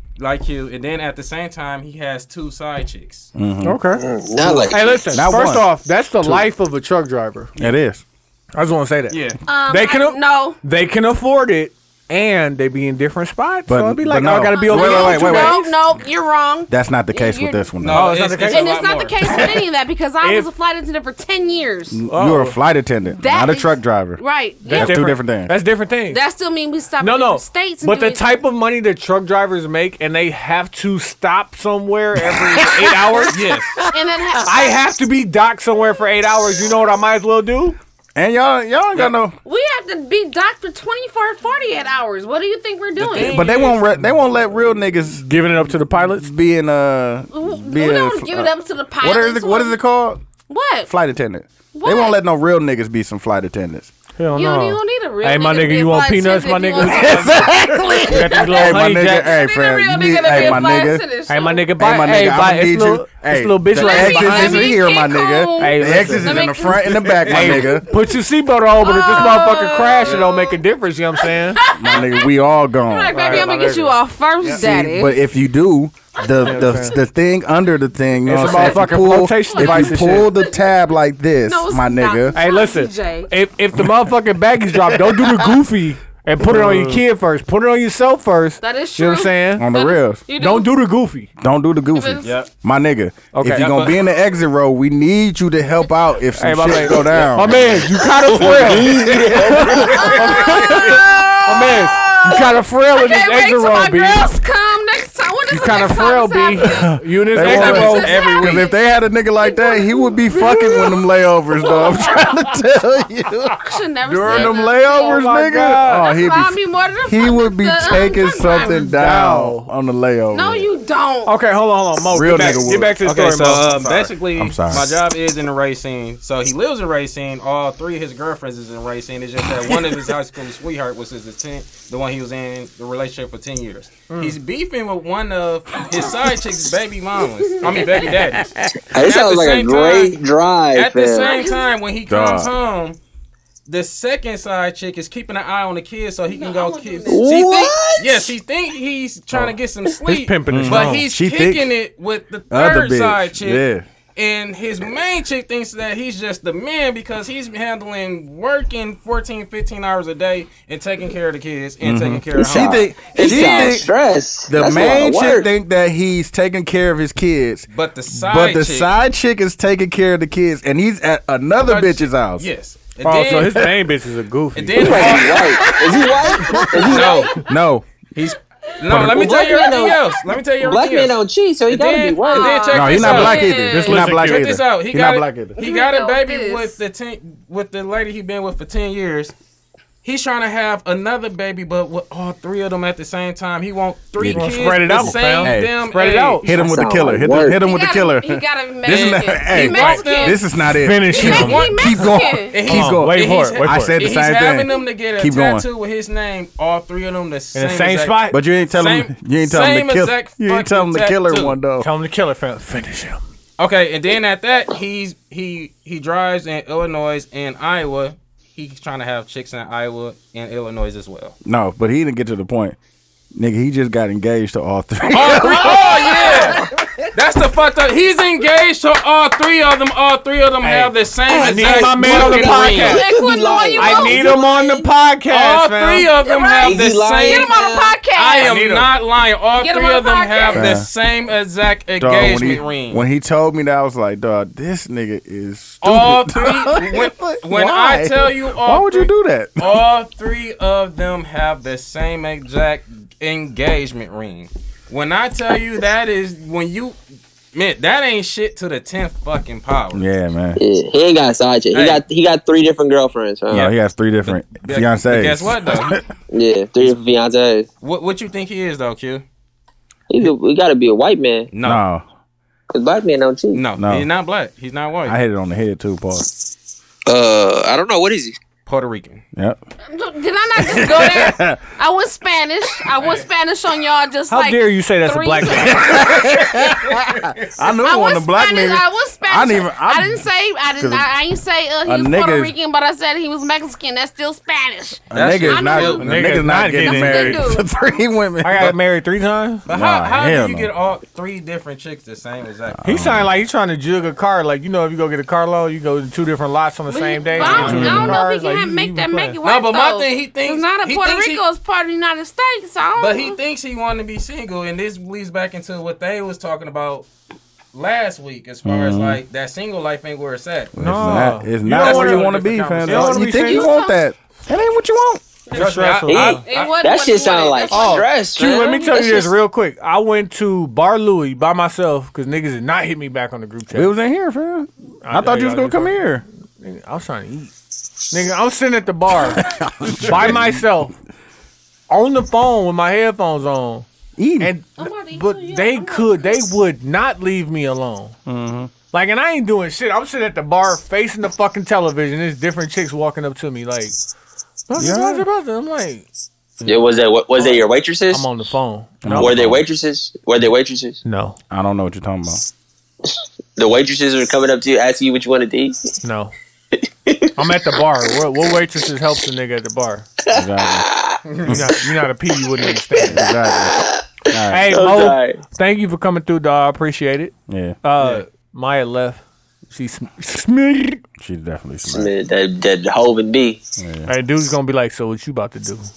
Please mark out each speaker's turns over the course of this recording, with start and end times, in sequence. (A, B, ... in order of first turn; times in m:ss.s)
0:00.2-0:03.3 A
0:03.4-0:03.8 B
0:03.6-0:04.0 C
0:03.9-0:05.1 D
0:04.4-0:05.7 B
0:04.7-0:07.5 C
0:06.2-0:06.5 B
0:07.6-0:08.0 B
0:08.6-0:15.7 C
0:09.1-0:09.4 A
0:09.5-0:10.6 E
0:13.7-0:15.6 B
0:14.5-0:17.7 E
0:16.7-0:18.1 B
0:17.8-0:19.2 A
0:17.9-0:18.7 C
0:18.5-0:22.0 E
0:20.2-0:20.5 C
0:21.9-0:25.5 B
0:22.1-0:22.6 C
0:23.2-0:25.0 E
0:24.7-0:26.2 C
0:26.1-0:28.4 E
0:27.0-0:33.4 C
0:32.3-0:33.2 B
0:33.3-0:33.8 A
0:33.9-0:34.9 E
0:34.4-0:37.8 C
0:38.2-0:39.4 B
0:39.4-0:43.5 E
0:43.0-0:43.9 A
0:43.2-0:45.2 B
0:45.2-0:46.3 C
0:46.0-0:50.2 B
0:47.3-0:49.8 E
0:50.5-0:50.9 E
0:50.8-0:53.9 B
0:51.8-0:52.2 E
0:54.2-0:59.3 C
0:54.3-1:02.0 E
0:56.8-1:01.0 B
1:01.3-1:04.8 C
1:01.8-1:07.8 B
1:03.7-1:07.8 E
1:05.6-1:06.4 C
1:07.3-1:11.6 C
1:08.8-1:10.6 E
1:11.2-1:15.2 E
1:11.7-1:13.4 B
1:13.1-1:14.6 C
1:13.1-1:13.8 A
1:14.5-1:22.4 B
1:16.2-1:16.8 E
1:16.4-1:17.0 C
1:18.3-1:20.3 C
1:18.4-1:20.5 E
1:21.4-1:23.3 E
1:22.4-1:29.7 C
1:24.8-1:25.5 B
1:26.4-1:27.0 B
1:28.6-1:30.7 E
1:29.6-1:30.2 B
1:30.4-1:31.3 C
1:31.4-1:37.9 B
1:31.9-1:32.3 E
1:32.2-1:32.5 A
1:33.3-1:33.7 C
1:33.5-1:34.0 A
1:36.4-1:44.3 C
1:38.2-1:40.2 D
1:40.0-1:40.5 A
1:40.2-1:42.2 B
1:42.9-1:48.8 E
1:45.5-1:48.2 C
1:46.6-2:00.7 B
1:47.4-1:48.7 A
1:49.4-1:52.4 E
1:53.6-1:58.8 E
1:54.3-1:54.5 A
1:55.0-1:56.2 C
1:58.6-1:59.7 C
2:00.3-2:01.3 E
2:01.3-2:03.7 C
2:02.1-2:03.0 B
2:03.0-2:20.2 A
2:03.6-2:04.9 B
2:14.1-2:14.4 C
2:17.4-2:18.1 E
2:18.9-2:21.4 D
2:20.7-2:23.0 A
2:21.1-2:21.8 E
2:22.1-2:22.5 B
2:23.7-2:43.7 A
2:26.3-2:27.3 E
2:27.1-2:28.3 D
2:30.0-2:31.1 C
2:30.5-2:31.7 B
2:32.5-2:33.9 B
2:41.8-2:43.9 B
2:42.4-2:45.5 D
2:44.5-2:52.5 B
2:47.7-2:48.9 A
2:51.6-2:53.7 A
2:53.0-2:55.3 C
2:53.5-2:53.7 B
2:54.6-2:55.8 A
2:54.7-2:57.3 D
2:55.6-2:57.9 B
2:55.7-2:57.5 E
2:56.6-2:56.9 C
2:56.9-2:57.4 A
2:58.2-3:09.3 A
2:58.9-2:59.3 B
2:59.0-3:00.2 E
2:59.0-3:00.0 D
3:00.6-3:02.6 D
3:02.2-3:04.0 E
3:02.7-3:05.6 B
3:03.7-3:04.5 C
3:05.6-3:06.8 E
3:10.0-3:16.5 A
3:14.2-3:15.8 B
3:14.3-3:16.5 C
3:16.4-3:25.6 B
3:16.5-3:17.6 D
3:17.6-3:20.4 E
3:19.5-3:20.4 A
3:19.7-3:20.0 C
3:20.8-3:21.6 C
3:21.1-3:22.6 E
3:21.1-3:31.6 A
3:22.7-3:24.0 C
3:27.5-3:28.4 C
3:28.3-3:31.9 B
3:31.8-3:33.2 C
3:33.6-3:41.4 A
3:41.4-3:42.8 B
3:43.3-3:46.7 B
3:45.1-3:53.0 A
3:50.6-3:53.1 C
3:51.3-3:54.2 D
3:52.5-3:54.9 E
3:53.8-3:56.1 C
3:55.3-4:03.0 A
3:56.2-3:58.6 E
3:56.6-3:58.0 D
3:58.4-3:58.9 C
3:59.6-4:00.7 E
4:00.5-4:00.9 B
4:02.0-4:09.8 B
4:05.8-4:17.0 A
4:17.5-4:20.0 A
4:19.9-4:20.6 B
4:20.6-4:23.7 D
4:21.7-4:22.0 A
4:23.5-4:26.0 B
4:24.2-4:26.0 A
4:26.3-4:27.7 D
4:27.8-4:29.2 A
4:30.1-4:31.5 D
4:31.5-4:31.8 A
4:31.6-4:32.0 B
4:32.7-4:33.6 D
4:33.5-4:35.2 A
4:33.8-4:34.1 B
4:35.1-4:36.3 B
4:37.1-4:38.4 D
4:38.7-4:39.2 A
4:39.4-4:39.6 B
4:39.9-4:46.5 E
4:40.6-4:41.6 B
4:44.3-4:46.1 C
4:45.6-4:51.1 B
4:47.6-4:56.1 E
4:51.8-4:52.5 B
4:55.1-4:58.8 B
4:55.1-4:56.3 A
4:56.0-4:57.4 C
4:56.6-4:57.7 E
4:58.4-4:59.7 C
4:59.7-5:02.9 A
4:59.7-5:00.7 B
5:02.7-5:03.3 B
5:02.8-5:09.4 C
5:06.9-5:13.4 E
5:07.3-5:08.1 A
5:07.5-5:08.2 B
5:09.4-5:11.4 A
5:13.0-5:17.1 A
5:17.7-5:20.8 A
5:18.6-5:19.2 B
5:20.8-5:25.2 B
5:20.8-5:23.7 C
5:21.6-5:23.3 A
5:23.2-5:24.1 E
5:25.5-5:26.4 C
5:25.5-5:26.7 A
5:26.1-5:29.3 D
5:26.2-5:28.1 E
5:27.7-5:33.9 C
5:33.7-5:36.2 B
5:35.0-5:36.0 C
5:36.6-5:37.5 C
5:38.1-5:39.5 C
5:39.2-5:40.6 B
5:40.0-5:40.9 C
5:41.9-5:43.9 C
5:44.2-5:44.5 B
5:44.4-5:48.2 C
5:44.8-5:46.3 E
5:48.3-5:48.7 B
5:48.9-5:54.0 C
5:54.7-5:56.1 C
5:54.8-5:55.3 B
5:56.6-5:58.3 D
5:57.4-5:59.3 C
5:59.0-5:59.6 B
5:59.1-6:01.0 D
6:01.0-6:01.4 C
6:01.5-6:02.4 B
6:03.6-6:05.9 D
6:06.0-6:06.3 C
6:06.8-6:07.3 D
6:07.4-6:10.1 C
6:10.3-6:11.6 D
6:10.3-6:10.9 B
6:11.4-6:13.3 C
6:13.1-6:14.7 B
6:13.7-6:14.0 D
6:14.5-6:21.0 C
6:14.6-6:15.4 D
6:17.5-6:18.2 B
6:21.2-6:22.1 B
6:21.9-6:23.6 D
6:23.8-6:24.1 B
6:24.1-6:25.9 C